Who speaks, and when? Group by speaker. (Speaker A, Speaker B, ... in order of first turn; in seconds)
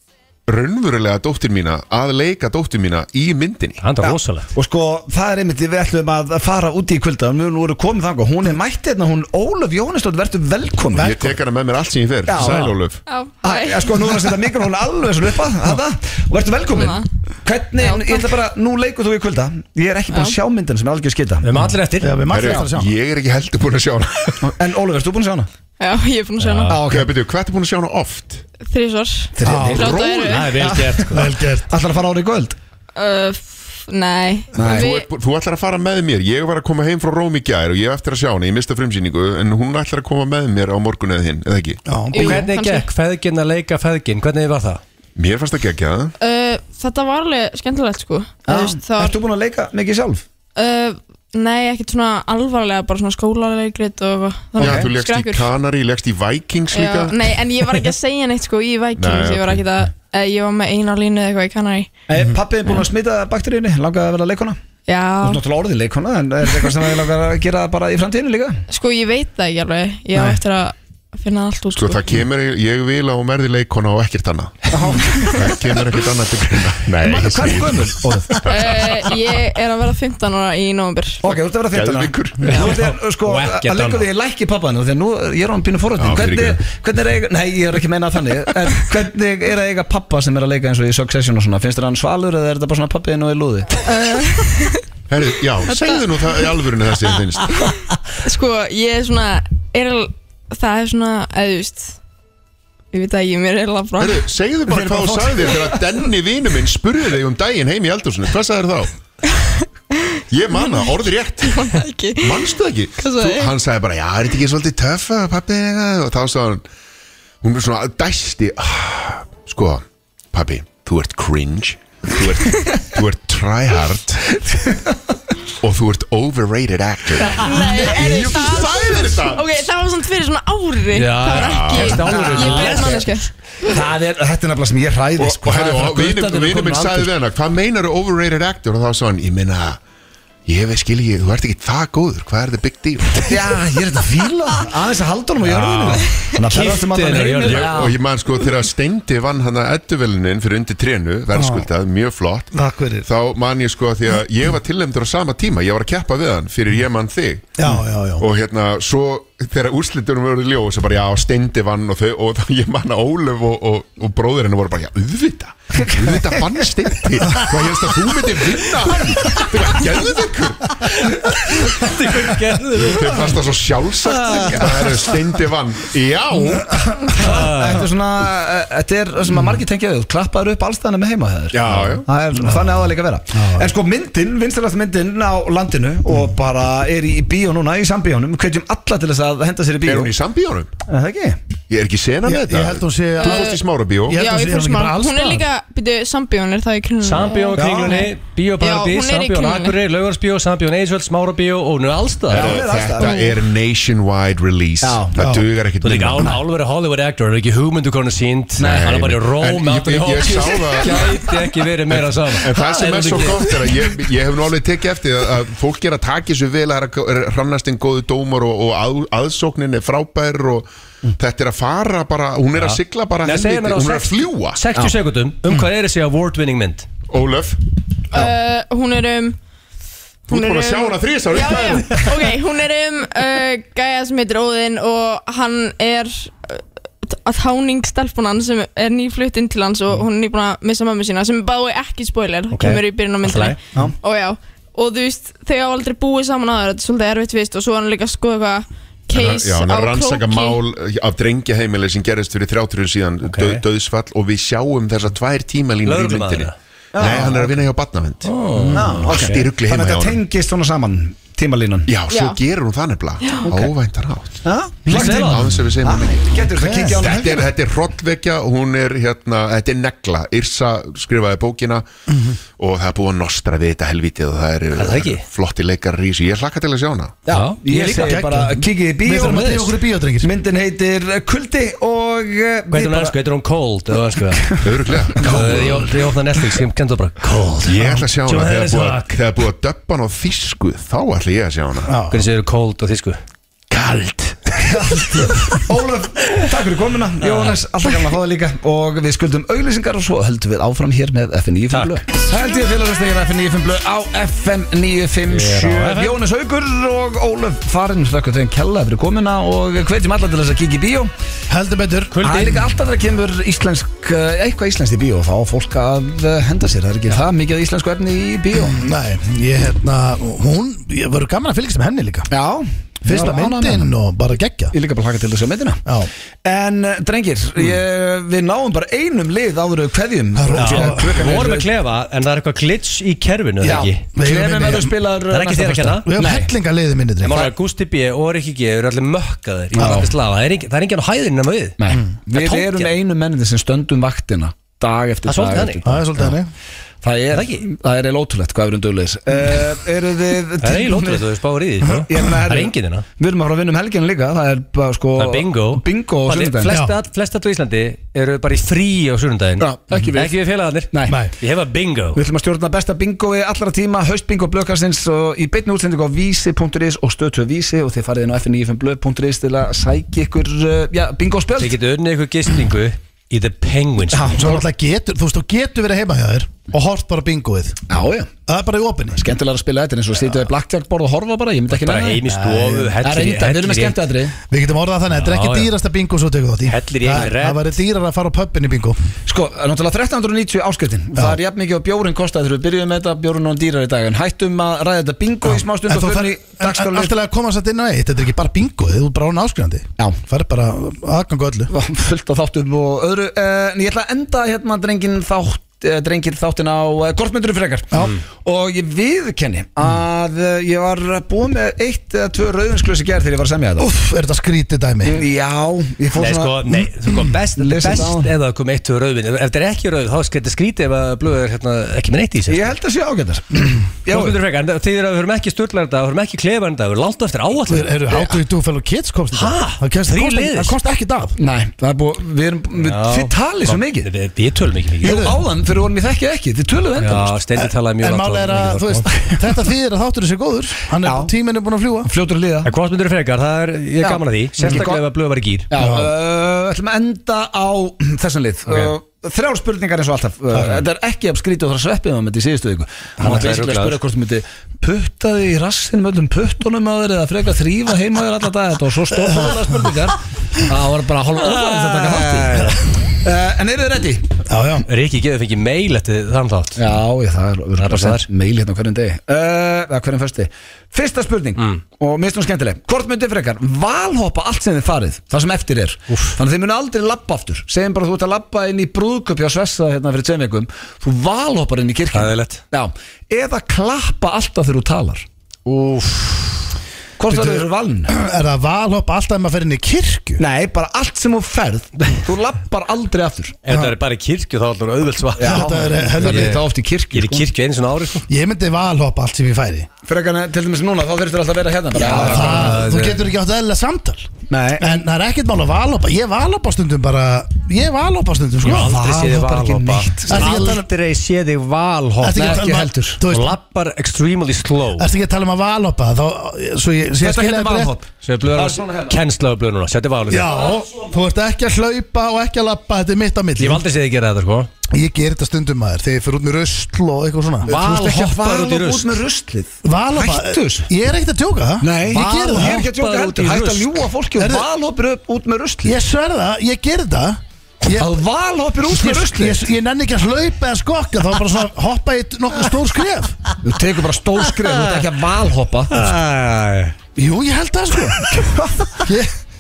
Speaker A: 0.5-3.8, 10.9-13.0, 22.3-24.5, 26.9-28.4, 34.6-41.8, 45.2-46.1, 54.6-57.4, 59.0-59.7, 71.7-78.7, 81.7-82.6, 86.0-86.6, 95.1-97.6, 104.0-108.9, 110.3-116.6, 117.4-124.5, 125.6-129.7, 131.3-132.6, 135.2-139.8, 140.5-143.7, 147.4-157.7, 158.2-171.0, 172.8-177.1, 181.5-182.1, 189.8-190.7, 191.7-194.2, 202.3-206.4, 208.6-211.3, 212.4-220.7, 221.2-224.6, 227.1-227.6, 230.3-232.3, 249.1-258.4, 258.9-260.2, 261.9-271.9, 272.6-277.2, 284.6-286.0, 287.6-292.0, 293.7-294.4
Speaker B: 3.8-4.5, 21.4-22.2, 26.4-26.8, 30.1-31.3, 42.2-44.8, 82.5-84.1, 130.9-133.1, 145.4-147.9, 169.2-169.6, 170.8-175.1, 177.2-177.9, 197.0-202.7, 205.8-213.8, 222.6-226.9, 242.5-243.6, 253.2-253.6, 255.8-256.5, 258.2-258.9, 264.9-265.6, 274.7-275.2, 277.3-278.2, 282.7-289.2, 292.1-293.2, 297.2-297.6, 301.7-302.0, 305.3-306.2, 312.1-312.6, 330.6-334.1, 335.3-336.1, 337.2-342.9, 345.3-345.9, 347.3-347.6, 350.6-353.0, 355.2-362.2, 371.6-374.5, 381.7-384.0, 385.2-385.7, 386.7-387.8, 416.1-422.7, 424.1-428.4, 429.3-430.8, 432.8-435.3, 437.0-439.3, 442.6-445.7, 453.2-454.0, 461.4-462.9, 464.9-466.8, 467.8-468.2, 476.1-476.4, 482.1-482.6, 485.7-486.7, 493.7-498.3, 502.0-503.2, 508.6-512.6, 513.2-515.1, 518.2-520.7, 523.6-524.7, 527.7-529.2, 532.2-534.1, 544.6-545.2, 545.9-547.0
Speaker C: 4.0-11.2, 12.3-12.8, 13.4-21.5, 24.4-25.5, 26.7-27.1, 29.4-32.6, 34.5-34.9, 48.5-50.2, 54.6-54.9, 62.1-64.6, 65.2-68.6, 74.7-75.7, 77.0-78.5, 81.2-93.8, 105.0-105.2, 132.1-133.1, 133.6-137.1, 143.3-148.0, 165.7-166.6, 171.5-171.9, 174.2-174.9, 176.9-190.1, 190.9-191.4, 197.6-198.1, 202.3-203.3, 204.8-205.2, 208.6-209.0, 212.6-213.2, 256.9-257.6, 258.7-261.9, 263.4-263.7, 264.4-267.5, 277.3-283.1, 284.4-284.6, 294.6-311.1, 312.2-318.8, 322.3-323.9, 324.7-325.9, 326.4-331.7, 333.6-336.5, 339.7-340.1, 341.8-346.4, 347.0-351.2, 352.1-356.8, 359.6-360.4, 360.9-361.2, 362.1-371.8, 374.1-374.6, 377.9-378.3, 379.1-382.2, 383.0-384.4, 389.3-397.1, 401.7-413.9, 415.1-416.9, 417.6-418.3, 422.5-424.4, 431.4-434.1, 435.0-437.3, 441.0-441.3, 442.0-442.7, 444.0-445.0, 445.7-464.4, 466.8-485.3, 487.2-488.1, 490.4-493.6, 495.4-497.5, 500.1-502.8, 504.5-505.0, 508.6-510.6, 512.3-513.2, 517.2-519.2, 527.7-530.9, 531.8-536.0, 537.9-539.6, 543.6-546.1, 548.3-549.0
Speaker D: 10.9-11.3, 12.4-12.7, 22.0-22.9, 29.4-30.0, 31.1-31.7, 41.9-42.5, 151.3-151.7, 152.5-153.1, 157.6-158.2, 182.4-182.8, 183.3-183.7, 192.2-195.5, 205.2-205.5, 258.5-259.0, 266.6-267.0, 272.1-272.4, 277.9-280.3, 291.9-292.3, 311.5-312.3, 318.5-322.3, 323.1-324.7, 325.9-326.1, 330.4-331.2, 333.6-334.9, 336.1-337.5, 339.8-340.1, 345.8-346.5, 361.1-361.3, 374.4-377.8, 378.5-379.3, 382.3-383.0, 384.5-389.0, 395.5-401.7, 413.8-415.2, 427.7-431.4, 435.0-435.4, 437.6-442.1, 445.8-446.1, 464.5-464.9, 487.3-490.4, 493.7-493.9, 495.4-496.6, 498.3-499.9, 502.0-509.0, 510.3-510.9, 512.2-513.5, 515.0-518.0, 520.3-523.8, 524.9-527.7, 529.8-532.9, 534.4-534.7, 535.8-538.1, 538.9-543.4, 547.2-548.5, 549.0-549.3
Speaker E: 13.1-14.2, 16.7-17.1, 17.8-18.4, 20.1-20.4, 25.8-26.8, 28.6-30.5, 33.0-35.1, 42.1-42.9, 46.2-49.2, 50.6-55.5, 56.7-61.9, 64.9-65.4, 68.7-72.2, 78.4-81.2, 93.8-94.8, 95.7-96.3, 97.5-101.9, 102.9-104.3, 109.2-113.5, 127.2-133.8, 193.2-193.6, 194.1-199.8, 203.0-203.3, 228.1-229.4, 230.3-250.6, 262.1-262.4, 263.2-263.5